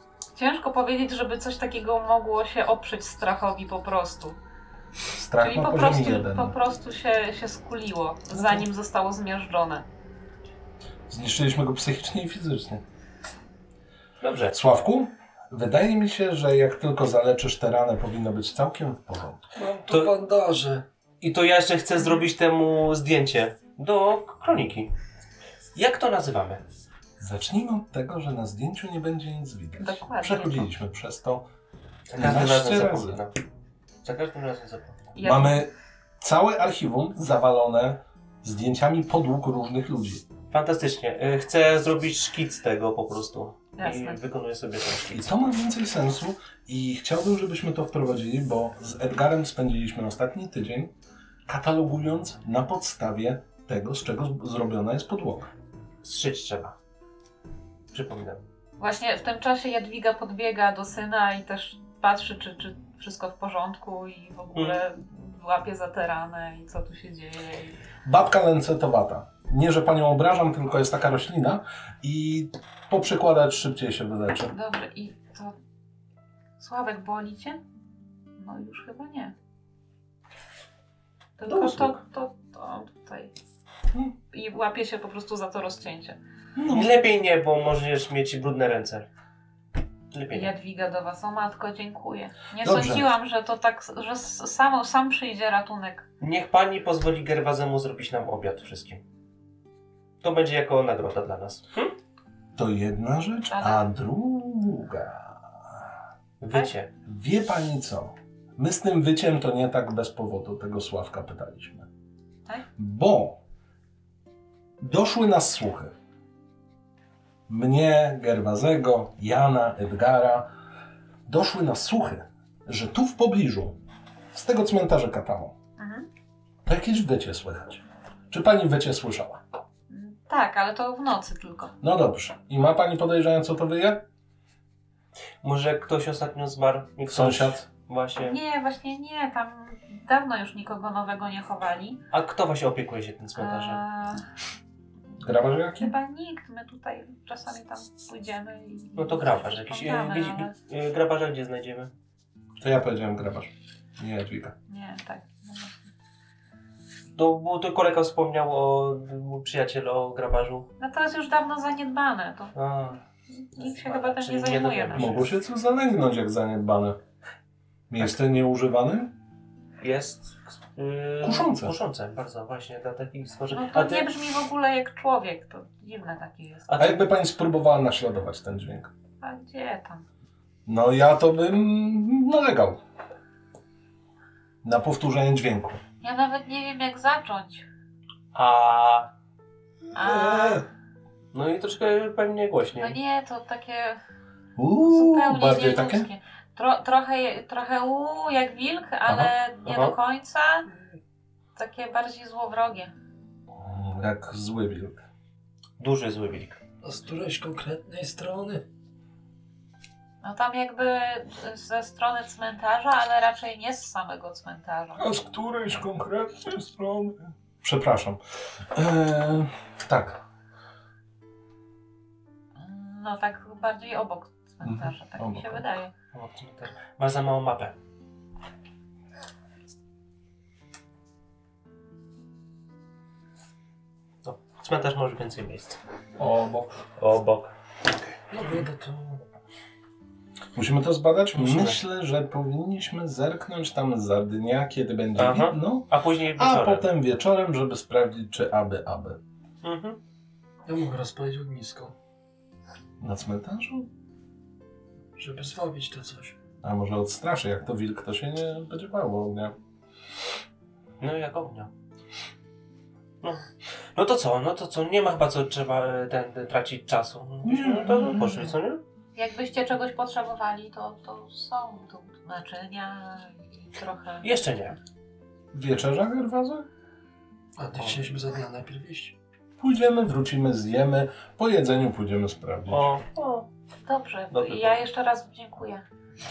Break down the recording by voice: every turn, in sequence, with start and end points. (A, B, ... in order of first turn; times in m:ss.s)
0:00.4-0:04.4 A
0:05.1-0:06.6 B
0:05.4-0:09.9 A
0:11.1-0:12.8 B
0:14.2-0:14.6 C
0:14.5-0:19.5 B
0:19.6-0:20.8 D
0:19.9-0:20.2 C
0:21.2-0:24.9 C
0:22.0-0:22.3 A
0:25.7-0:26.6 C
0:27.2-0:31.5 B
0:29.8-0:30.7 A
0:32.1-0:33.4 C
0:32.2-0:33.2 B
0:34.0-0:35.0 C
0:35.2-0:35.6 A
0:35.2-0:40.3 B
0:40.5-0:45.3 C
0:43.8-0:44.2 A
0:45.1-0:50.9 B
0:51.5-0:55.5 B
0:56.0-0:56.8 C
0:57.9-0:58.4 C
0:58.8-1:07.8 A
1:04.6-1:04.8 C
1:08.0-1:14.5 B
1:14.5-1:15.6 A
1:16.6-1:17.6 A
1:18.4-1:19.3 A
1:21.4-1:23.3 A
1:21.5-1:22.0 C
1:24.3-1:26.2 A
1:26.6-1:27.0 B
1:26.7-1:29.1 C
1:30.1-1:30.5 C
1:30.3-1:36.1 A
1:32.6-1:33.1 B
1:36.2-1:39.0 C
1:40.2-1:42.0 C
1:42.6-1:45.9 B
1:43.5-1:43.9 A
1:46.4-1:46.9 C
1:47.1-1:51.9 B
1:52.8-1:53.4 B
1:54.8-1:55.9 B
1:57.5-2:00.5 B
2:01.3-2:03.8 B
2:04.3-2:05.6 B
2:05.8-2:06.1 A
2:06.6-2:09.4 B
2:09.9-2:11.7 A
2:11.8-2:14.0 B
2:15.4-2:18.4 C
2:17.1-2:17.7 B
2:18.2-2:22.0 A
2:22.1-2:23.8 C
2:23.4-2:24.2 A
2:25.2-2:25.9 B
2:25.8-2:30.5 A
2:29.0-2:31.9 C
2:32.6-2:34.6 B
2:34.7-2:35.8 A
2:37.2-2:40.7 C
2:40.8-2:42.5 A
2:42.6-2:43.0 C
2:43.5-2:45.2 A
2:43.6-2:45.3 C
2:45.0-2:47.0 B
2:47.9-2:49.1 B
2:49.8-2:54.2 C
2:51.2-2:51.8 B
2:53.5-2:56.8 A
2:56.7-2:57.0 C
2:56.8-2:58.9 B
2:59.2-3:00.0 A
3:00.7-3:02.8 B
3:04.6-3:05.8 B
3:06.0-3:07.7 A
3:08.3-3:09.1 C
3:09.9-3:10.7 A
3:10.1-3:10.6 D
3:11.3-3:13.0 C
3:12.8-3:14.0 A
3:14.6-3:16.1 B
3:14.8-3:20.7 A
3:19.1-3:19.3 B
3:19.6-3:20.0 C
3:21.6-3:22.9 A
3:23.5-3:25.0 B
3:25.8-3:26.6 C
3:26.8-3:28.6 D
3:30.2-3:35.0 A
3:35.0-3:40.2 B
3:42.6-3:45.9 A
3:44.6-3:45.6 B
3:46.1-3:47.8 C
3:54.2-3:55.8 C
3:56.2-3:56.8 B
3:57.0-3:58.6 C
3:58.3-3:59.2 D
4:00.6-4:09.2 B
4:01.3-4:01.8 C
4:05.2-4:06.9 C
4:09.6-4:10.0 C
4:10.7-4:11.9 D
4:13.0-4:13.9 B
4:15.2-4:16.4 D
4:16.6-4:19.6 B
4:21.0-4:21.7 C
4:23.2-4:28.8 C
4:27.4-4:28.5 B
4:29.2-4:34.3 A
4:34.2-4:34.8 C
4:35.5-4:36.7 B
4:37.6-4:39.2 D
4:37.8-4:38.0 C
4:39.6-4:42.9 B
4:42.7-4:43.5 C
4:43.9-4:45.8 A
4:44.3-4:44.8 C